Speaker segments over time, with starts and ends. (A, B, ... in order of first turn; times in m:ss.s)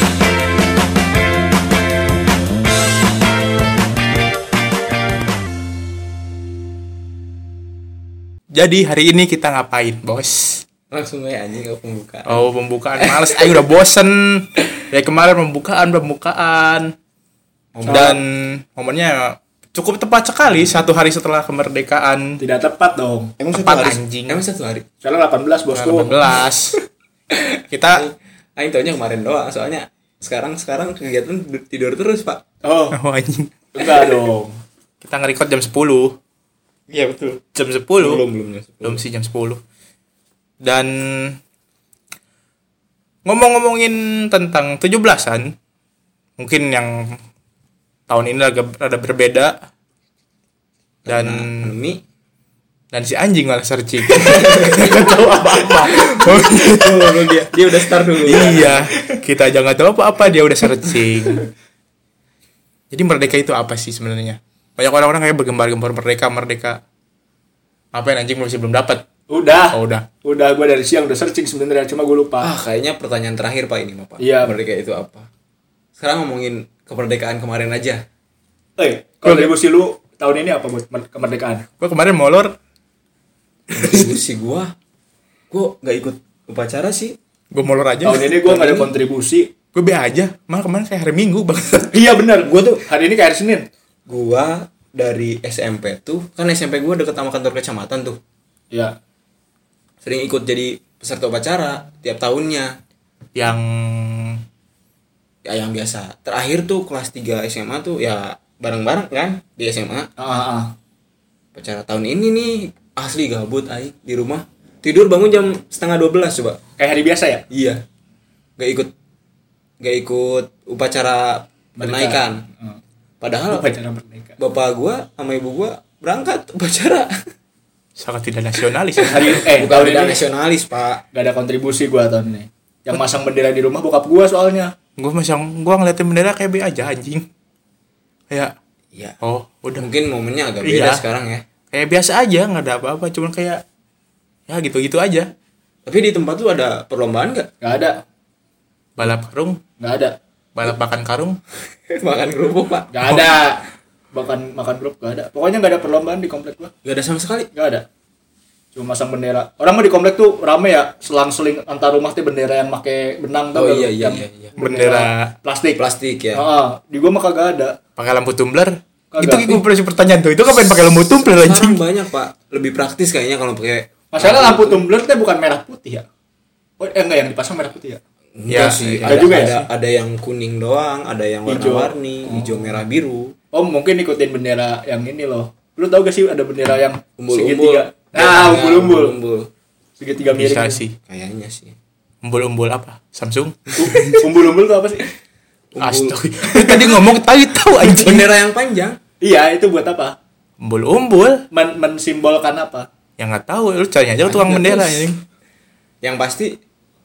0:08.5-0:10.6 A
0:10.9-0:13.6 B
0:12.3-0:16.9 A
0:17.7-0:18.2 B
0:17.8-0:18.2 C
0:17.8-0:22.4 A
0:22.4-0:23.3 C
0:23.4-0:24.8 B
0:23.5-0:24.4 A
0:25.0-0:26.2 C
0:25.7-0:26.8 A
0:27.3-0:32.4 B
0:27.7-0:28.0 A
0:32.6-0:33.0 C
0:32.9-0:33.5 A
0:33.7-0:34.6 C
0:35.0-0:36.2 A
0:36.9-0:37.4 B
0:37.5-0:38.2 A
0:38.0-0:39.0 B
0:38.8-0:39.6 A
0:40.6-0:41.4 A
0:43.2-0:45.5 A
0:46.4-0:47.1 A
0:48.1-0:49.6 A
0:51.0-0:52.0 B
0:51.1-0:51.7 A
0:52.9-0:57.4 A
0:54.1-0:58.9 B
0:58.2-1:01.4 A
1:02.9-1:06.8 A
1:07.9-1:09.0 A
1:09.3-1:12.5 C
1:09.7-1:10.1 A
1:12.4-1:15.3 B
1:14.2-1:14.6 C
1:16.0-1:18.0 B
1:18.8-1:21.6 C
1:19.2-1:19.5 A
1:21.8-1:22.5 A
1:23.7-1:24.7 B
1:23.7-1:24.1 A
1:25.5-1:27.2 B
1:27.5-1:28.3 A
1:28.0-1:29.5 C
1:28.4-1:28.9 B
1:29.7-1:32.0 A
1:31.9-1:33.7 C
1:32.4-1:32.8 B
1:34.1-1:38.2 B
1:40.0-1:42.8 B
1:43.4-1:44.4 A
1:45.4-1:50.1 B
1:50.2-1:50.7 C
1:51.5-1:56.6 B
1:56.8-1:57.4 C
1:57.5-1:57.8 B
1:58.6-1:58.9 B
1:59.8-2:02.4 B
2:01.8-2:02.8 C
2:03.2-2:03.7 B
2:03.5-2:04.4 C
2:04.4-2:07.1 B
2:08.0-2:09.5 A
2:09.0-2:11.0 B
2:09.1-2:10.2 C
2:11.1-2:14.7 C
2:15.0-2:17.2 A
2:19.2-2:19.8 A
2:19.8-2:21.4 B
2:20.6-2:21.0 A
2:21.7-2:23.6 A
2:24.5-2:25.3 A
2:25.8-2:27.5 B
2:27.6-2:28.0 C
2:29.0-2:29.6 A
2:29.8-2:30.2 C
2:30.5-2:31.4 A
2:31.9-2:32.9 B
2:32.9-2:36.7 C
2:36.8-2:37.5 B
2:37.5-2:37.8 C
2:38.7-2:45.8 C
2:43.5-2:44.6 B
2:44.6-2:45.3 A
2:45.8-2:46.4 B
2:46.3-2:47.8 C
2:48.0-2:51.8 A
2:49.1-2:49.6 C
2:51.1-2:54.9 B
2:54.1-2:56.0 C
2:56.8-2:58.0 C
2:58.4-3:03.3 B
2:58.5-2:59.6 A
2:59.0-2:59.6 C
3:01.4-3:02.8 C
3:03.5-3:09.1 C
3:07.2-3:09.5 B
3:10.0-3:10.8 C
3:10.3-3:11.0 A
3:11.0-3:11.8 B
3:12.2-3:14.2 A
3:13.8-3:15.0 C
3:15.7-3:17.0 B
3:15.8-3:18.3 A
3:17.7-3:19.0 B
3:19.2-3:20.2 C
3:20.6-3:21.4 A
3:21.5-3:22.9 C
3:23.2-3:25.2 A
3:24.2-3:25.1 B
3:26.0-3:26.6 B